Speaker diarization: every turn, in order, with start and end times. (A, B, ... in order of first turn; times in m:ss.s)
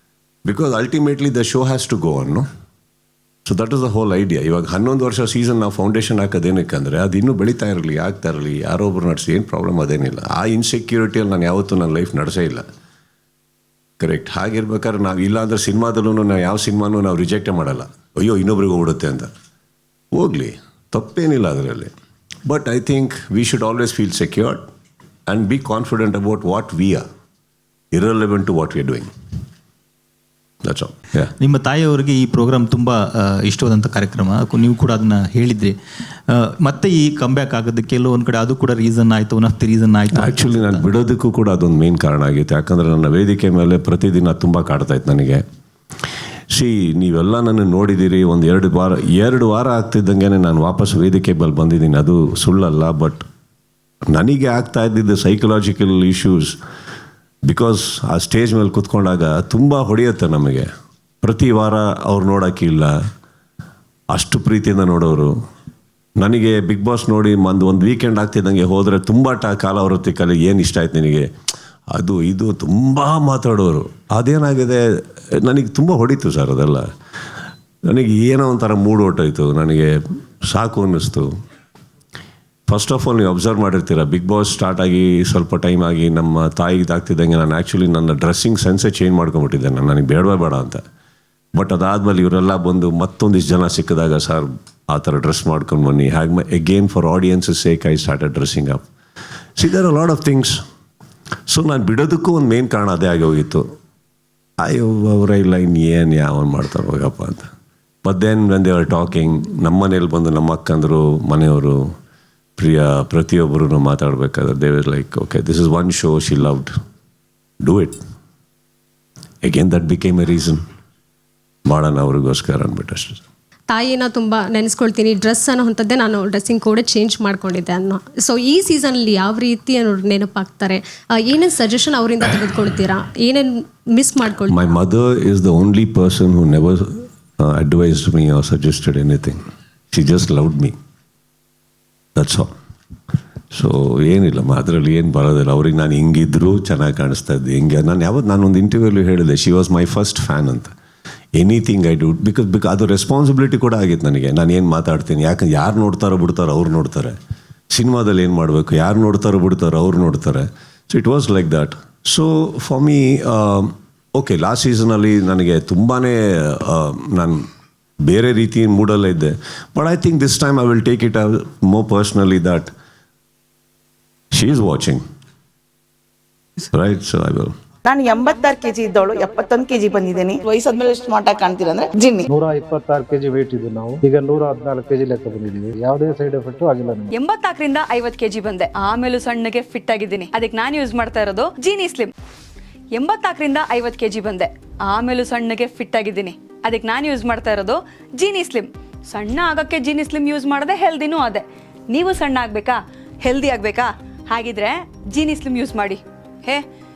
0:00.5-0:02.5 A
0:03.5-0:12.6 A
0:14.0-0:19.3 A
0:20.1-0:21.9 A
0:22.5-0:24.6 A
0:25.3-0:27.0 A
0:27.9-0:29.1 A
0:30.6-0:31.3 A
0:31.4-0:35.8 B
0:36.3-0:40.8 B
0:40.1-0:45.4 A
0:46.5-0:53.2 A
0:54.1-0:56.6 A
0:57.5-1:00.7 A
1:01.2-1:03.0 A
1:04.1-1:05.3 A
1:06.2-1:11.3 A
1:11.9-1:16.9 A
1:17.9-1:21.3 A
1:22.7-1:30.8 A
1:31.6-1:38.8 A
1:39.6-1:40.6 A
1:41.5-1:43.6 A
1:44.6-1:47.5 A
1:48.0-1:51.8 A
1:52.6-1:56.7 A
1:57.6-1:58.0 A
1:59.4-2:00.6 A
2:01.7-2:03.2 A
2:03.7-2:14.7 C
2:14.5-2:19.4 A
2:19.9-2:20.8 A
2:22.2-2:22.5 A
2:23.5-2:30.7 A
2:31.4-2:37.2 A
2:37.7-2:47.4 A
2:48.0-2:52.7 A
2:54.3-2:55.0 A
2:56.7-2:57.5 A
2:57.9-3:02.3 D
3:02.3-3:07.1 E
3:07.1-3:12.1 F
3:13.0-3:26.6 F